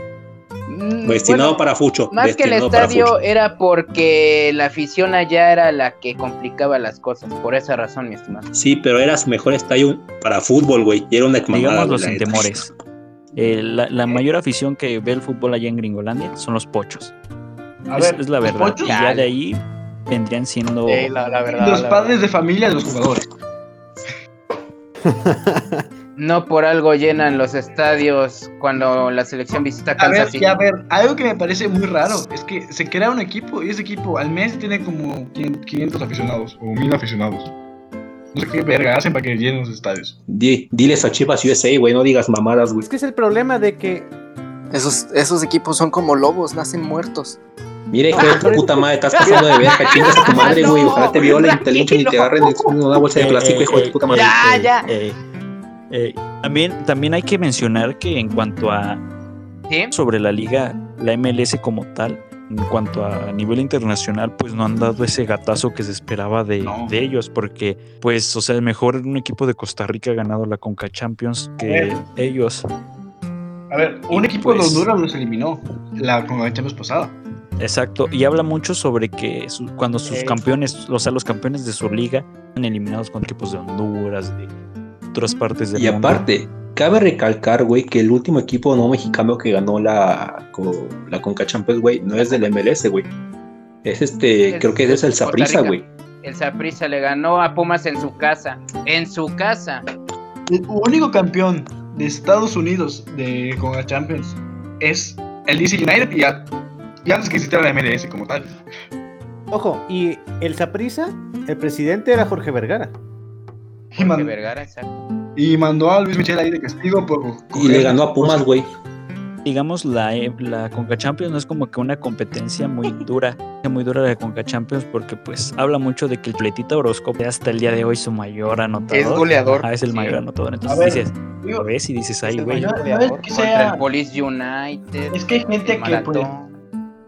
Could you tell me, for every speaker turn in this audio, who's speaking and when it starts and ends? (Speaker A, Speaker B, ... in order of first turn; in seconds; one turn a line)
Speaker A: 0.7-8.5
Speaker B: 1.1-3.1
Speaker B: 8.5-12.6
Speaker C: 11.5-12.7
Speaker C: 13.4-17.1
Speaker D: 17.9-19.0
Speaker C: 17.9-21.1
Speaker A: 18.9-19.3
Speaker E: 20.9-22.2
Speaker D: 21.5-23.2
Speaker F: 25.1-25.9
Speaker A: 26.1-30.6
Speaker D: 30.0-37.5
Speaker D: 38.3-40.2
Speaker B: 40.3-42.9
Speaker F: 42.8-44.1
Speaker G: 44.7-47.4
Speaker B: 47.9-54.6
Speaker A: 48.2-48.6
Speaker A: 49.2-52.8
Speaker C: 53.1-55.2
Speaker A: 54.1-54.9
Speaker C: 55.9-59.0
Speaker C: 59.9-72.6
Speaker D: 66.6-67.0
Speaker D: 71.6-72.0
Speaker D: 73.7-77.2
Speaker C: 74.1-74.9
Speaker C: 77.6-84.5
Speaker E: 80.0-80.4
Speaker C: 85.1-86.2
Speaker B: 85.8-93.1
Speaker B: 93.8-95.9
Speaker A: 94.5-99.8
Speaker D: 100.5-106.5
Speaker D: 107.0-108.6
Speaker F: 109.5-112.9
Speaker D: 113.9-114.3
Speaker A: 113.9-114.9
Speaker D: 115.4-118.5
Speaker B: 117.5-118.7
Speaker C: 119.4-132.7
Speaker E: 128.9-129.7
Speaker A: 129.9-130.2
Speaker D: 130.7-131.7
Speaker E: 132.2-133.3
Speaker D: 132.5-133.8
Speaker A: 133.3-136.5
Speaker D: 135.1-136.3